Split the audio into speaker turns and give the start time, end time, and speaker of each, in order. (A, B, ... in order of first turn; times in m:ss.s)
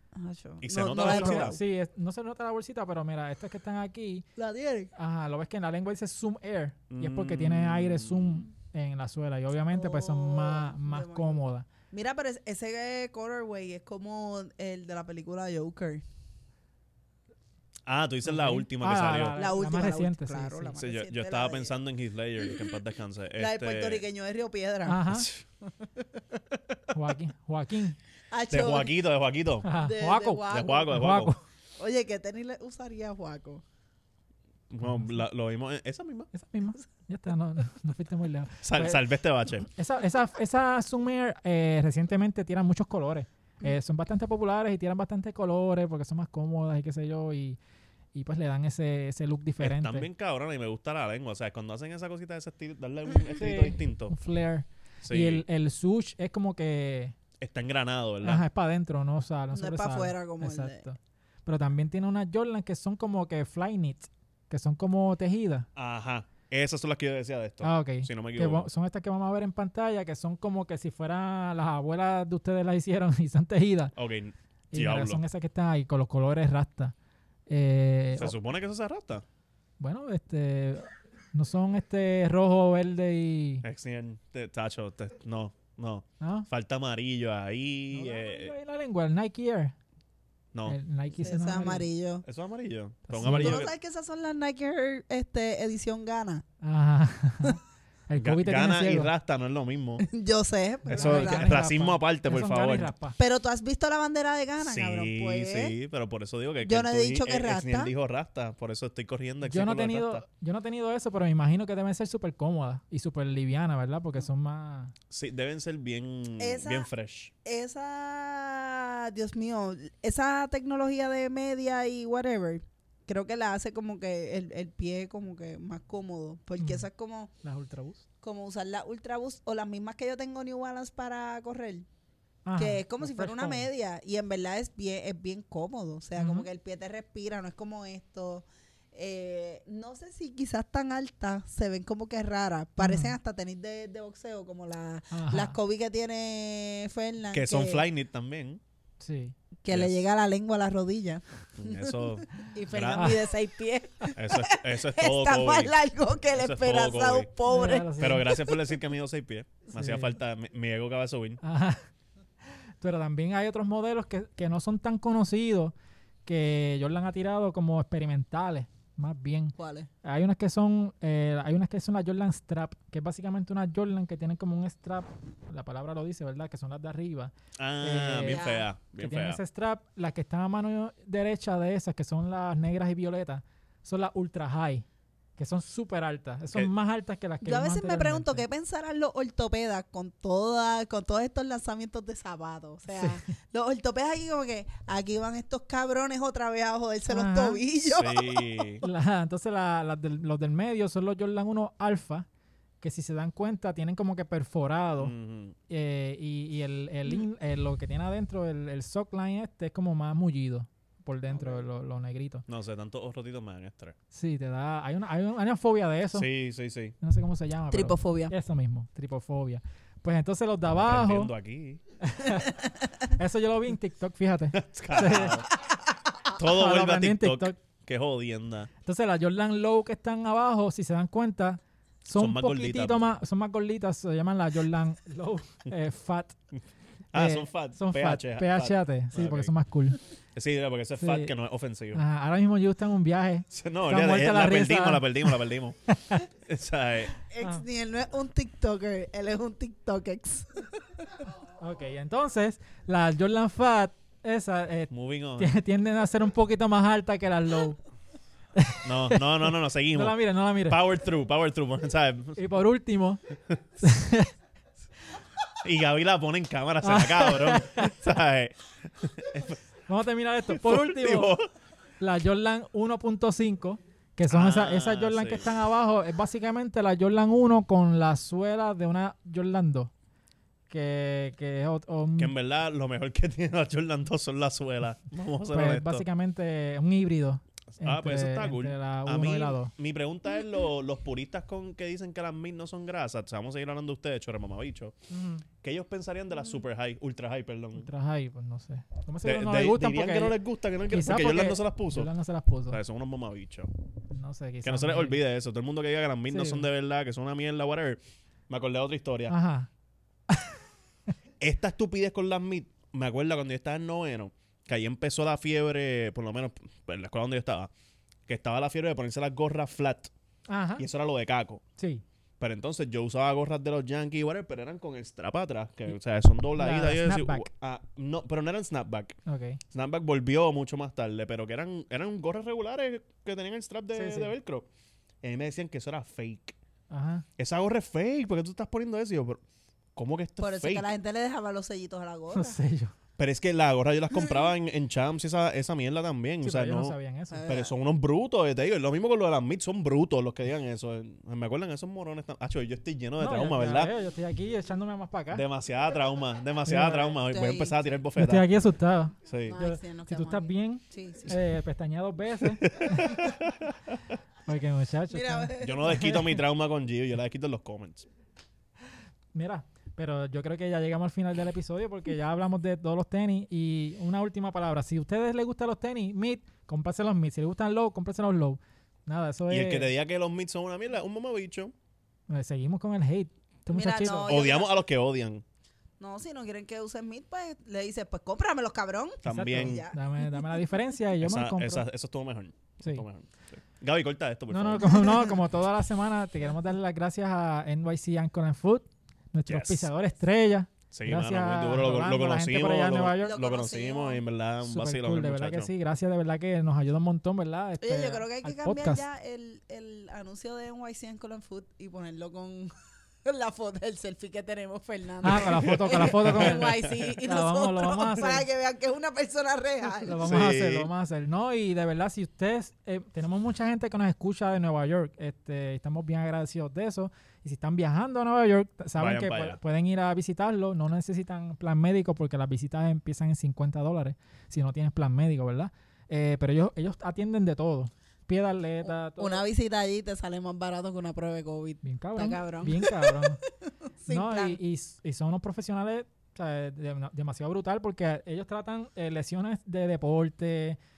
0:00.2-0:01.6 A
0:00.6-0:01.6 B
0:01.0-0:04.3 C
0:04.4-0:04.9 A
0:05.0-0:11.7 C
0:06.9-0:08.4 B
0:09.7-0:16.0 A
0:17.9-0:19.4 B
0:18.2-0:20.8 C
0:19.4-0:21.8 A
0:20.8-0:24.0 B
0:22.4-0:22.8 A
0:23.4-0:25.0 A
0:24.9-0:25.3 C
0:25.1-0:25.4 B
0:26.9-0:28.0 C
0:28.3-0:29.0 A
0:28.5-0:29.7 B
0:29.6-0:31.4 C
0:29.8-0:31.1 A
0:30.5-0:31.3 B
0:31.8-0:33.6 A
0:34.7-0:36.3 B
0:34.8-0:35.2 C
0:36.3-0:39.1 C
0:38.6-0:39.7 B
0:39.6-0:47.6 C
0:48.1-0:50.1 C
0:49.6-0:54.2 B
0:53.3-0:57.2 C
0:55.0-0:55.4 B
0:57.4-0:58.4 B
0:58.2-1:05.7 C
0:59.5-1:00.8 A
1:05.8-1:08.7 B
1:07.6-1:13.9 C
1:14.0-1:15.2 B
1:14.7-1:16.9 C
1:17.5-1:18.4 C
1:18.2-1:19.2 B
1:19.8-1:23.6 C
1:23.6-1:28.5 B
1:26.2-1:26.5 C
1:27.9-1:29.8 C
1:30.7-1:31.9 C
1:31.2-1:32.2 A
1:32.2-1:33.7 B
1:33.1-1:33.6 C
1:33.2-1:36.4 A
1:36.6-1:39.1 C
1:38.2-1:40.0 B
1:40.0-1:41.7 A
1:40.9-1:43.2 C
1:40.9-1:42.9 B
1:43.2-1:45.8 A
1:44.6-1:50.2 B
1:46.6-1:47.9 A
1:49.4-1:54.9 C
1:55.1-1:57.3 B
1:56.4-1:56.9 A
1:57.4-2:07.3 A
2:06.6-2:06.9 C
2:07.4-2:08.0 C
2:08.2-2:11.9 A
2:12.4-2:13.7 C
2:12.6-2:27.8 A
2:16.2-2:16.5 C
2:22.8-2:23.2 C
2:25.1-2:25.6 C
2:27.3-2:28.6 B
2:29.0-2:29.4 C
2:29.6-2:38.6 A
2:29.7-2:30.0 B
2:31.6-2:33.2 B
2:34.2-2:35.7 B
2:36.4-2:37.3 B
2:37.5-2:38.3 C
2:38.0-2:41.4 B
2:39.7-2:40.1 C
2:41.4-2:41.8 C
2:42.8-2:45.7 C
2:46.2-2:58.4 C
2:49.6-2:49.9 A
2:57.6-2:59.4 B
2:58.3-2:58.7 A
2:59.0-3:04.9 C
3:05.4-3:08.4 C
3:07.4-3:18.7 A
3:12.9-3:13.3 C
3:17.1-3:17.6 C
3:17.9-3:18.8 B
3:18.8-3:22.3 C
3:22.8-3:25.1 C
3:25.0-3:25.6 B
3:25.7-3:32.4 C
3:32.5-3:34.0 B
3:34.1-3:36.3 C
3:36.1-3:37.0 B
3:37.0-3:41.3 C
3:37.7-3:38.3 A
3:40.8-3:41.8 B
3:42.0-3:45.5 C
3:44.5-3:45.5 B
3:46.3-3:48.7 B
3:46.4-3:47.6 C
3:48.8-3:56.4 C
3:52.2-3:53.0 B
3:57.1-3:59.5 B
3:57.1-4:00.0 C
4:00.4-4:02.0 B
4:01.0-4:01.3 C
4:01.9-4:06.2 C
4:03.5-4:07.1 B
4:07.2-4:11.3 A
4:11.6-4:17.8 C
4:14.9-4:15.6 B
4:18.6-4:20.8 C
4:18.8-4:22.4 B
4:22.4-4:23.2 C
4:23.8-4:24.3 C
4:25.6-4:29.6 B
4:26.8-4:28.0 C
4:29.9-4:31.4 C
4:30.5-4:31.5 B
4:32.0-4:39.9 C
4:34.3-4:35.5 B
4:40.7-4:42.3 C
4:42.2-4:46.0 B
4:45.5-4:49.7 C
4:47.8-4:55.0 B
4:55.1-4:55.4 C
4:55.6-4:57.9 B
4:57.8-5:00.4 C
4:59.2-5:02.1 B
5:00.9-5:02.8 C
5:02.7-5:03.7 B
5:04.1-5:05.2 C
5:04.6-5:09.3 B
5:06.3-5:06.7 C
5:09.3-5:09.7 C
5:10.3-5:10.6 C
5:11.4-5:17.7 B
5:18.3-5:20.1 B
5:20.5-5:20.8 C
5:20.8-5:21.6 B
5:21.8-5:22.0 C
5:22.4-5:29.2 B
5:26.6-5:27.5 C
5:29.3-5:29.6 C
5:29.7-5:34.7 B
5:33.9-5:34.3 C
5:35.2-5:36.6 B
5:36.9-5:37.3 C
5:37.4-5:39.4 B
5:40.0-5:40.9 B
5:40.4-5:42.6 A
5:42.3-5:42.9 C
5:43.2-5:47.0 B
5:46.4-5:47.5 C
5:47.3-5:47.7 A
5:47.5-5:53.9 B
5:53.2-5:55.4 C
5:55.3-5:58.5 B
5:56.6-5:57.2 C
5:57.3-5:57.8 A
5:58.2-6:03.2 C
5:59.2-5:59.6 B
5:59.4-6:01.4 A
6:02.4-6:04.2 B
6:04.4-6:06.4 C
6:05.1-6:06.1 A
6:05.6-6:08.1 B
6:09.3-6:19.9 C
6:19.5-6:21.7 B
6:22.3-6:24.4 C
6:23.7-6:24.8 A
6:24.2-6:25.4 B
6:26.0-6:30.4 A
6:29.2-6:29.8 B
6:29.3-6:31.8 C
6:31.2-6:35.0 B
6:34.5-6:43.4 C
6:34.8-6:35.3 A
6:39.5-6:39.9 B
6:40.9-6:45.7 B
6:43.2-6:44.2 A
6:44.6-6:49.0 C
6:47.8-6:52.7 A
6:53.2-7:00.2 A
6:55.2-6:58.4 C
6:55.5-6:57.2 B
7:00.0-7:19.4 C
7:00.2-7:00.9 B
7:09.0-7:09.6 B
7:18.8-7:23.5 A
7:21.8-7:23.4 C
7:24.0-7:24.6 A
7:24.1-7:30.8 C